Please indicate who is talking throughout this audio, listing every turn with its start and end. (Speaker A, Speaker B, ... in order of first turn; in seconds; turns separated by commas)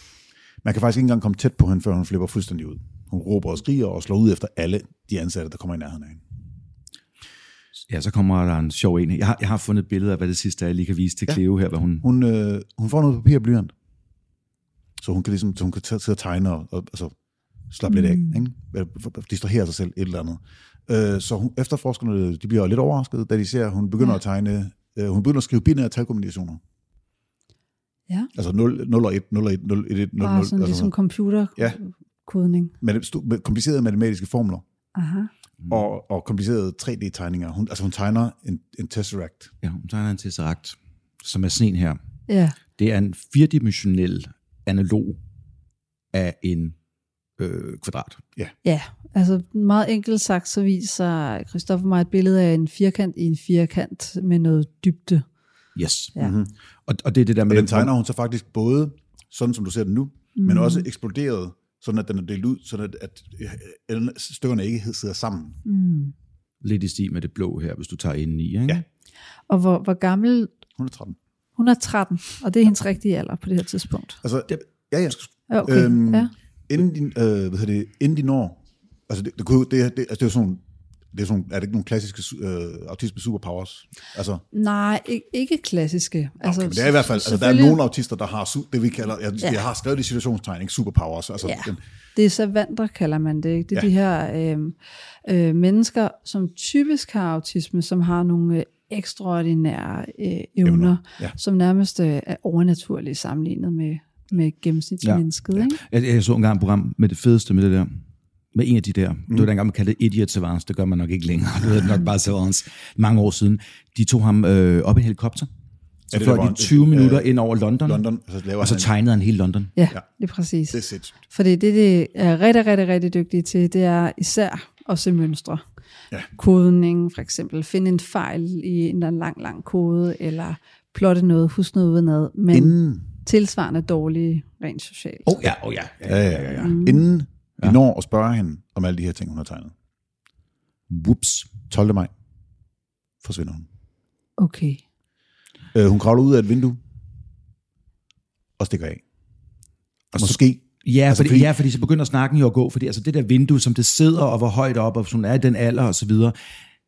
Speaker A: 0.6-6.2, Speaker B: 7.9-12.1, Speaker A: 12.0-13.7, Speaker A: 15.0-17.1, Speaker A: 17.7-26.6, Speaker C: 17.9-18.4, Speaker A: 28.3-30.9, Speaker C: 30.2-32.7, Speaker A: 32.8-34.6, Speaker C: 34.9-35.3, Speaker A: 35.7-39.5, Speaker B: 39.6-42.0, Speaker C: 42.3-42.6, Speaker B: 42.8-45.2, Speaker B: 46.1-46.8, Speaker B: 47.4-48.2, Speaker C: 48.6-55.2, Speaker B: 55.8-56.1, Speaker A: 56.2-56.5, Speaker B: 56.9-57.9, Speaker A: 57.5-65.6, Speaker C: 60.4-60.9, Speaker C: 65.6-66.1, Speaker B: 66.6-68.8, Speaker C: 69.5-70.5, Speaker A: 70.8-71.2, Speaker C: 71.6-74.2, Speaker A: 74.2-84.4, Speaker C: 75.5-76.3, Speaker C: 84.5-87.8, Speaker A: 86.4-91.8, Speaker C: 91.4-105.8, Speaker A: 100.6-101.4, Speaker B: 105.0-108.0, Speaker B: 108.5-115.5, Speaker A: 116.1-117.3, Speaker B: 116.1-118.1, Speaker A: 117.8-118.9, Speaker B: 118.6-119.7, Speaker C: 119.8-125.6, Speaker A: 120.7-121.1, Speaker C: 126.3-135.3, Speaker A: 132.5-133.1, Speaker B: 135.2-136.8, Speaker A: 136.1-139.7, Speaker C: 136.6-137.0, Speaker B: 140.9-141.5, Speaker A: 141.7-142.1, Speaker A: 143.2-143.7, Speaker C: 144.4-144.8, Speaker A: 145.7-146.8, Speaker A: 148.6-149.0, Speaker A: 150.1-151.5, Speaker B: 150.1-156.4